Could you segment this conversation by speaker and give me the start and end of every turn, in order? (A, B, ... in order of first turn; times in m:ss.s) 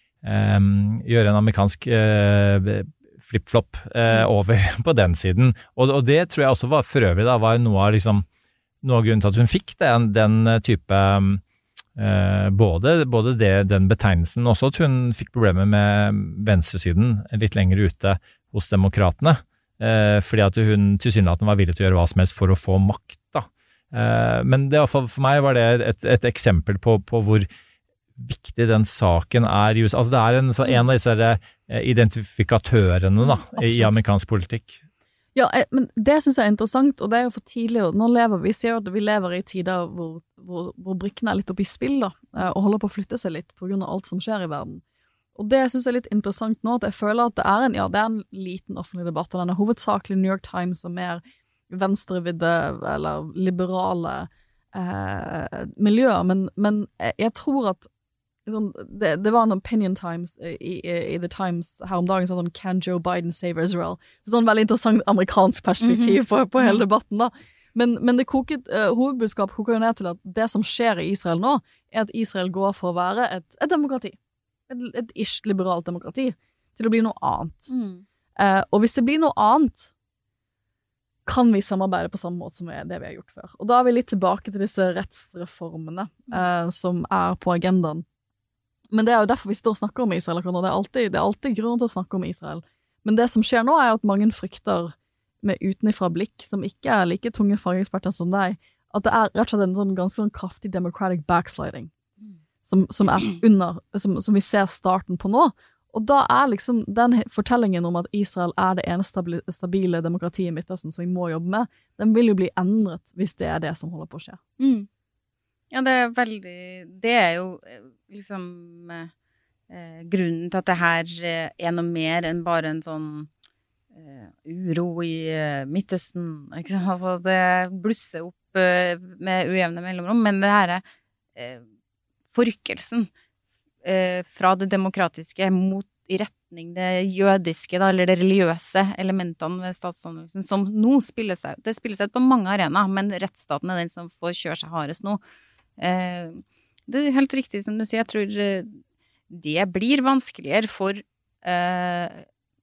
0:00.2-0:08.2 A
0:08.8-0:11.4 A
0:12.0-0:27.5 A
0:28.2-0:34.8 A
0:33.3-0:33.9 B
0:35.3-0:44.8 B
0:45.4-0:57.9 B
0:58.4-1:14.2 B
1:05.8-1:06.8 C
1:14.7-1:17.7 B
1:17.7-1:18.0 C
1:18.4-1:19.9 B
1:21.2-1:28.0 B
1:28.9-1:41.9 B
1:42.6-1:54.4 B
1:54.6-1:54.9 C
1:55.7-1:59.1 C
1:59.7-2:03.3 C
2:03.9-2:10.8 C
2:11.4-2:11.6 C
2:12.3-2:13.1 C
2:13.8-2:25.2 C
2:25.8-2:28.8 C
2:29.3-2:32.2 C